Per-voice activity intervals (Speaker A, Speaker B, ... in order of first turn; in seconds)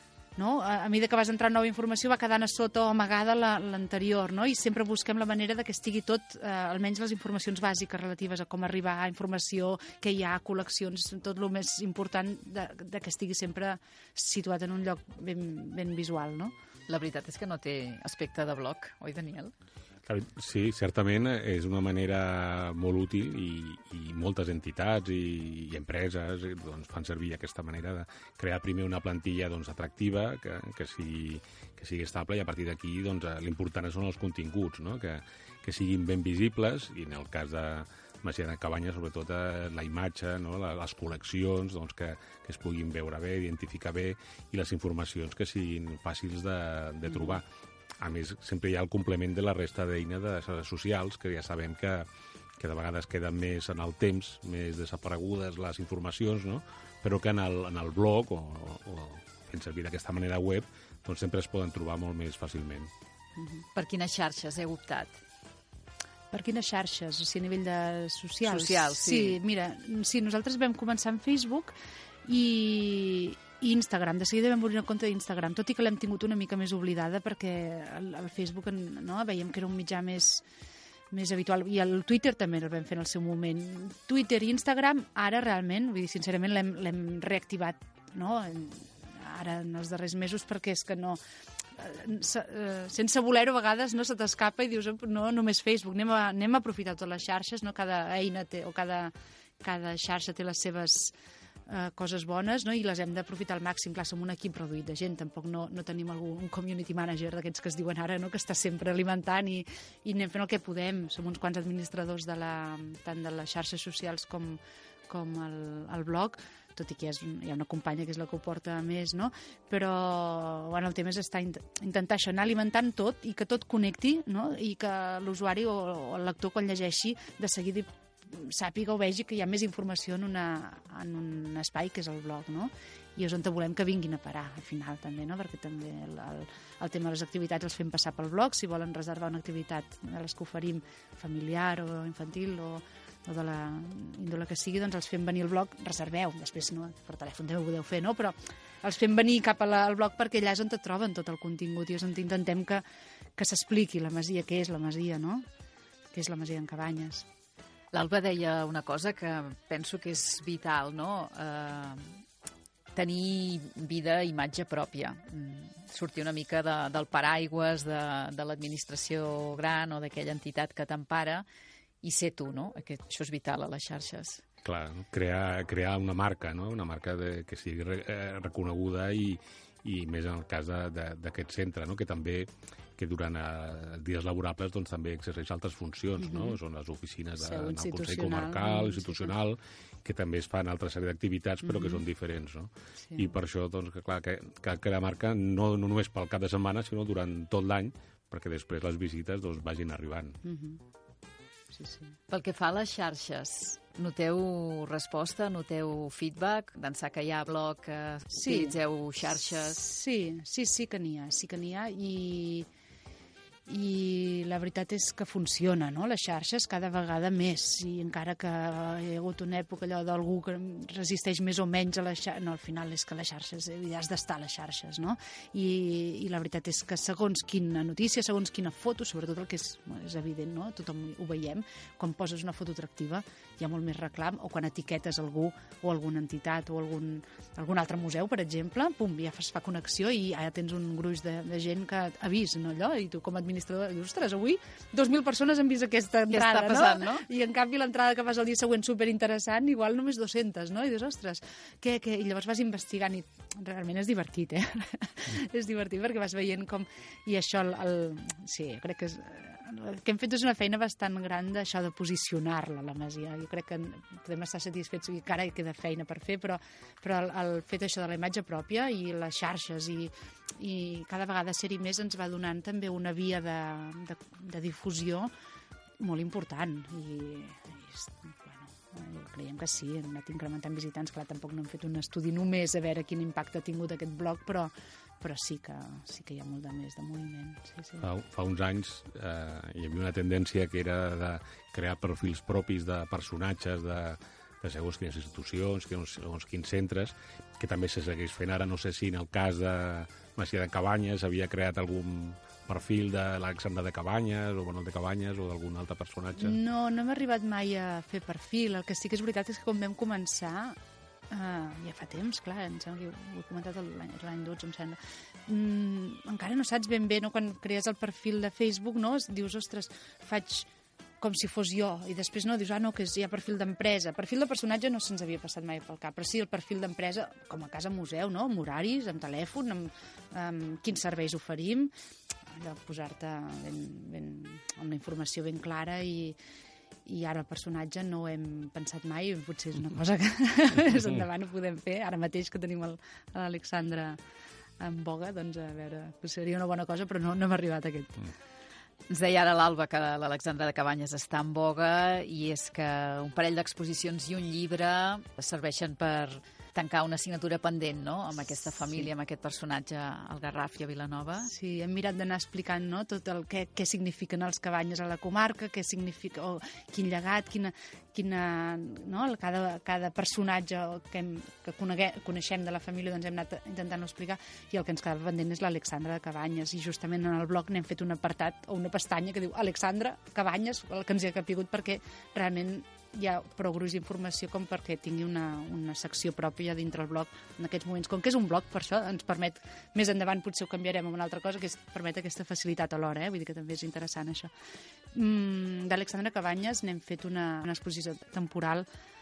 Speaker A: 0.4-16.5, 47.1-47.4, 63.4-63.6, 66.3-80.4, 81.1-91.2, 91.8-101.1, 101.7-152.8, 153.4-155.4, 156.1-157.2, 186.2-186.6, 187.4-189.3, 191.6-192.0, 193.0-193.3, 200.4-200.8, 201.7-202.2, 208.4-208.8, 209.6-212.7, 213.7-275.3, 276.0-288.1, 306.4-310.8, 311.3-320.7, 321.2-331.9, 332.5-336.4, 337.1-344.2, 344.8-348.3, 361.4-394.5, 395.1-398.9
Speaker B: 16.9-19.5, 63.8-65.1, 68.4-69.4, 157.9-162.2, 162.9-171.4, 172.0-174.4, 202.3-209.8, 246.3-247.2, 349.1-361.5
Speaker C: 20.1-47.5, 48.0-62.9, 174.6-200.4, 288.0-306.6